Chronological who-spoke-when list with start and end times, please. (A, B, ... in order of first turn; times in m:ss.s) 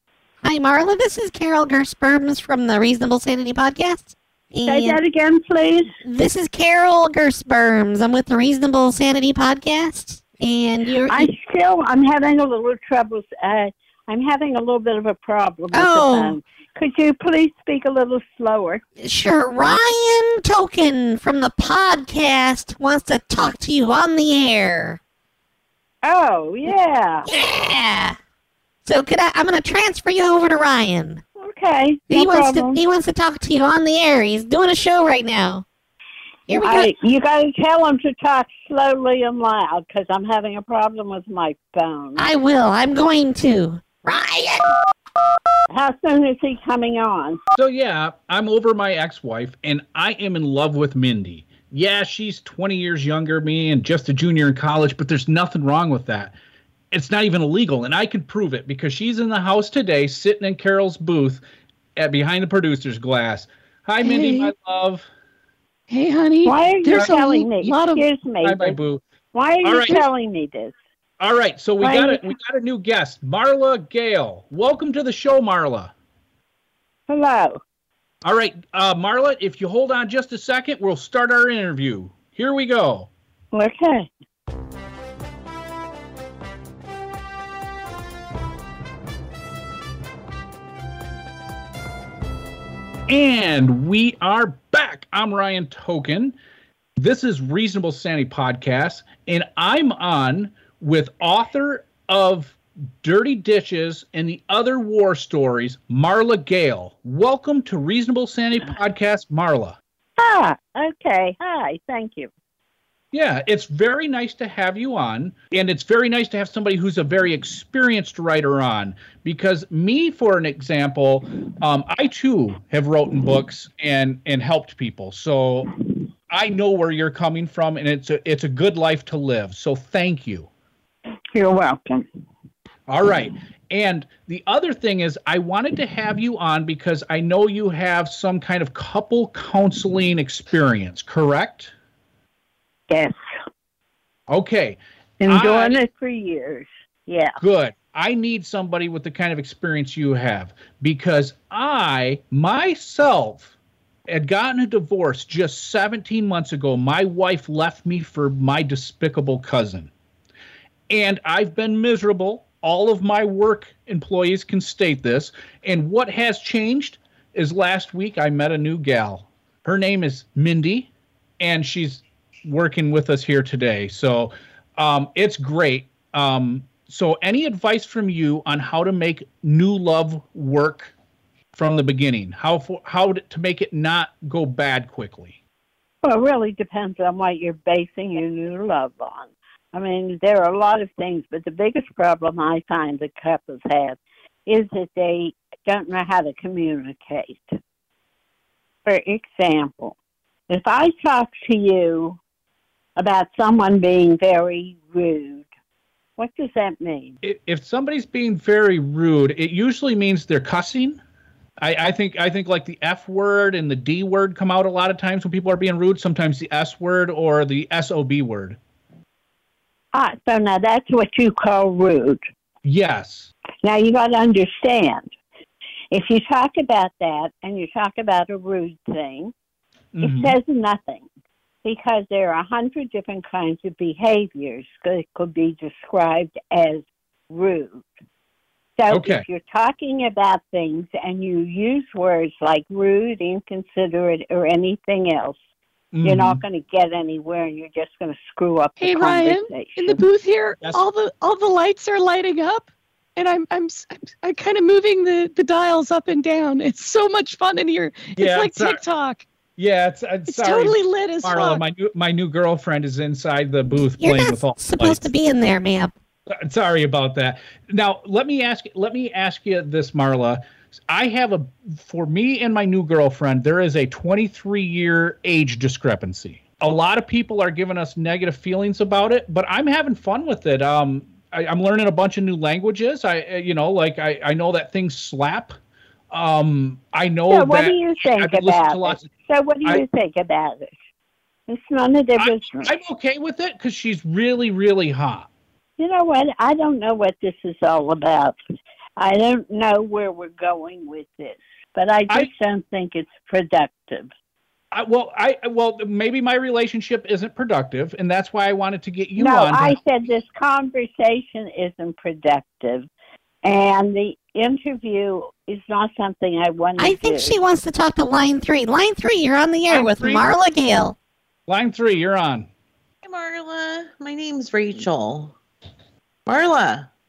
0:00.4-0:05.0 A
0:04.6-0:05.9 B
0:06.0-0:11.3 A
0:11.1-0:18.8 B
0:15.7-0:16.4 A
0:19.0-0:25.0 A
0:26.0-0:27.2 B
0:27.3-0:28.2 A
0:28.8-0:31.2 A
0:31.4-0:32.8 B
0:32.1-0:35.6 A
0:36.5-0:36.9 A
0:36.6-0:42.2 B
0:42.2-0:44.8 A
0:45.7-0:47.4 B
0:47.6-0:56.3 C
0:56.9-1:01.4 C
1:02.0-1:05.1 C
1:04.0-1:04.5 D
1:05.9-1:08.0 D
1:06.4-1:08.8 B
1:06.9-1:07.2 C
1:08.4-1:09.0 C
1:09.3-1:10.7 B
1:09.6-1:10.1 C
1:11.2-1:15.9 C
1:11.8-1:12.2 B
1:17.1-1:17.6 B
1:18.2-1:23.1 C
1:23.5-1:24.1 B
1:33.1-1:36.4 C
1:37.0-1:49.8 C
1:50.2-1:52.3 B
1:53.1-2:05.7 C
2:06.3-2:10.5 C
2:11.3-2:12.0 B
2:12.9-2:21.7 C
2:22.9-2:23.2 B
2:24.3-2:25.8 C
2:25.2-2:27.4 B
2:27.4-2:33.5 C
2:34.1-2:39.9 C
2:40.9-2:50.9 C
2:51.4-3:00.9 C
3:01.5-3:05.4 C
3:06.0-3:17.5 B
3:18.8-3:20.0 B
3:20.5-3:22.2 B
3:23.0-3:25.4 B
3:26.2-3:27.1 B
3:27.2-3:31.0 C
3:31.6-3:38.6 C
3:39.9-3:42.2 B
3:42.6-3:43.3 C
3:43.6-3:45.1 B
3:45.9-3:49.3 B
3:49.9-3:50.4 C
3:50.0-3:51.0 B
3:51.6-3:57.8 B
3:58.8-4:05.4 B
3:58.9-3:59.2 C
4:05.9-4:06.4 C
4:06.0-4:10.0 B
4:08.8-4:19.2 D
4:18.2-4:18.8 C
4:19.6-4:25.1 C
4:20.3-4:21.6 D
4:24.0-4:25.9 A
4:26.3-4:45.5 C
4:46.1-4:49.1 C
4:47.3-4:50.7 B
4:51.5-4:52.7 B
4:52.2-4:55.3 C
4:55.8-4:58.4 B
4:59.0-5:04.1 B
5:04.7-5:09.8 C
5:09.2-5:12.9 B
5:13.4-5:17.4 B
5:16.8-5:21.0 A
5:19.7-5:20.2 C
5:21.5-5:22.5 C
5:23.0-5:25.3 E
5:26.2-5:26.9 E